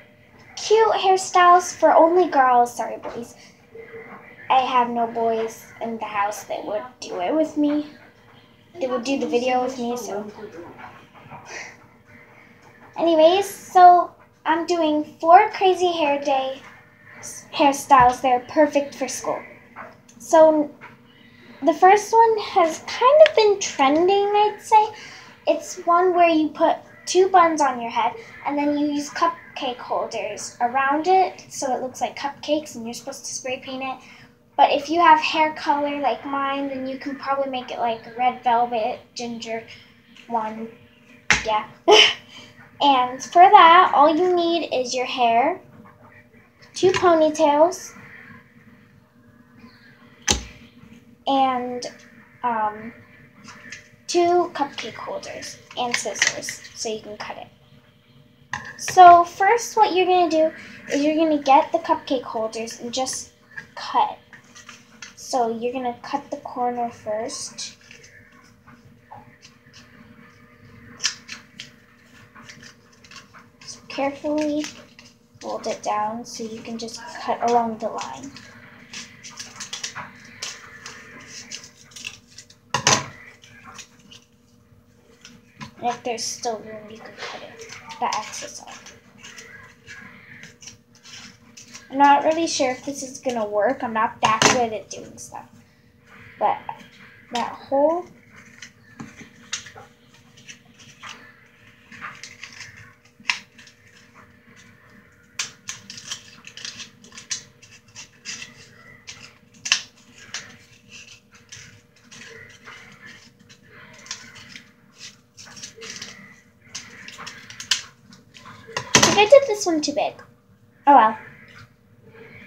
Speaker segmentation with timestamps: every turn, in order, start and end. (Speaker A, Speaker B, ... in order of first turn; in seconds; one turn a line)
Speaker A: 0.6-3.4
Speaker A: 4.5-7.9
Speaker A: 8.8-10.7
Speaker A: 13.0-16.6
Speaker A: 17.2-19.4
Speaker A: 20.2-20.7
Speaker A: 21.6-24.9
Speaker A: 25.5-34.0
Speaker A: 34.6-39.7
Speaker A: 40.3-40.7
Speaker A: 41.4-42.2
Speaker A: 42.8-45.6
Speaker A: 46.8-47.9
Speaker A: 51.3-51.9
Speaker A: 52.4-53.0
Speaker A: 54.1-57.5
Speaker A: 58.8-64.2
Speaker A: 65.1-67.7
Speaker A: 73.6-74.7
Speaker A: 75.4-78.3
Speaker A: 85.8-88.9
Speaker A: 91.9-95.5
Speaker A: 97.3-98.1
Speaker A: 119.0-120.2
Speaker A: 120.9-121.2